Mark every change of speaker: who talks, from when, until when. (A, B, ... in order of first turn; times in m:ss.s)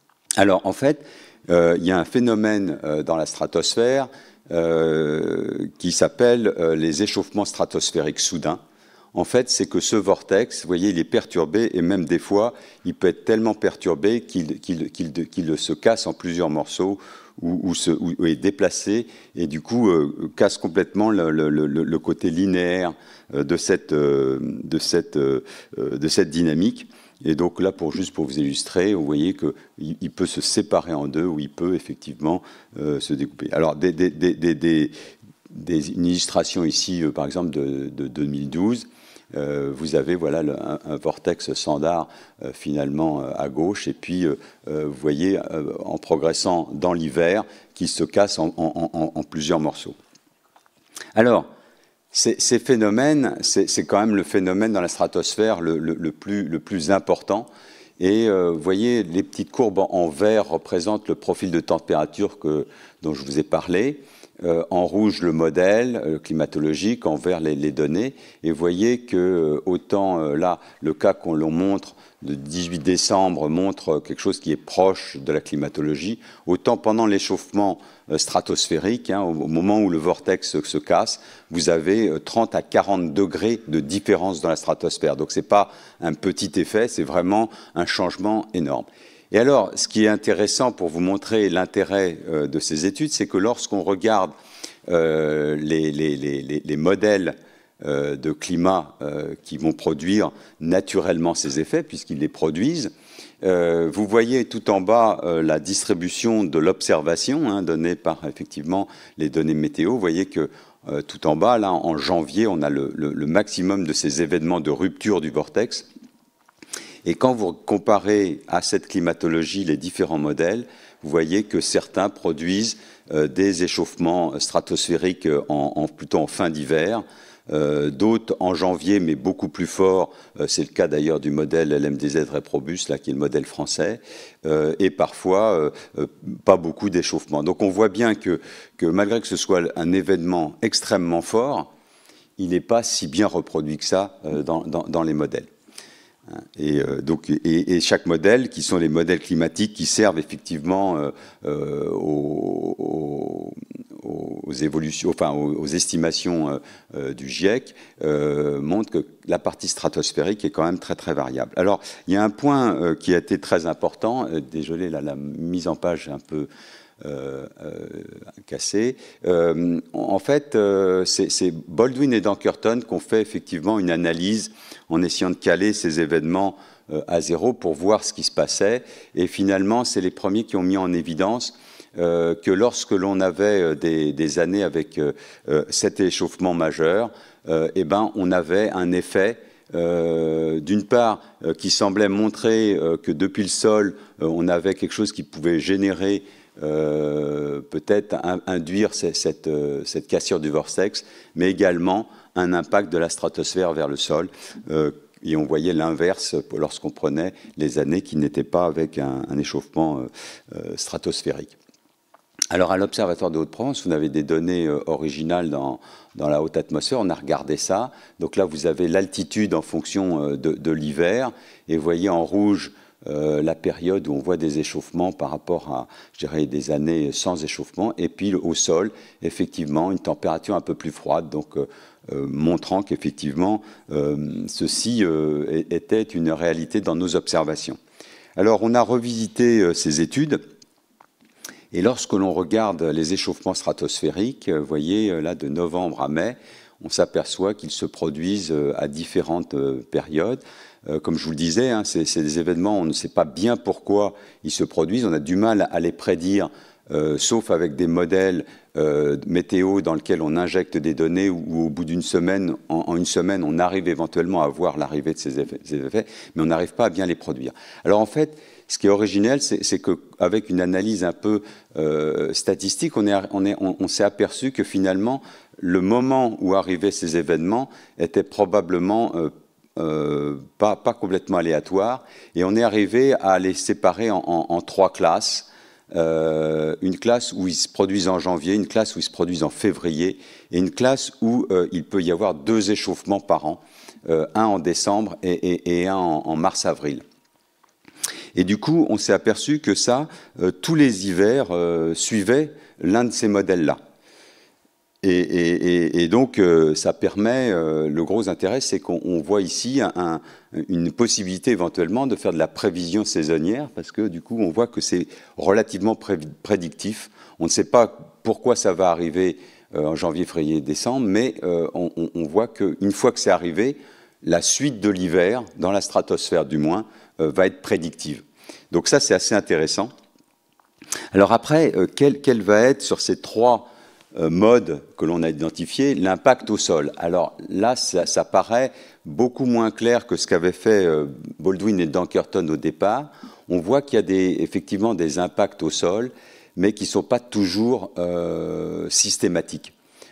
0:00.4-0:08.6 A
0:09.1-0:34.9 A
0:35.5-0:50.0 A
0:51.2-0:51.5 A
0:52.1-1:34.3 A
1:34.9-1:55.8 A
1:57.0-2:21.7 A
2:22.4-2:25.5 A
2:26.3-2:46.5 A
2:47.0-3:31.5 A
3:32.5-3:57.8 A
3:58.4-4:00.4 A
4:01.7-4:57.0 A
4:58.3-5:03.8 A
5:05.0-5:29.9 A
5:31.1-5:49.7 A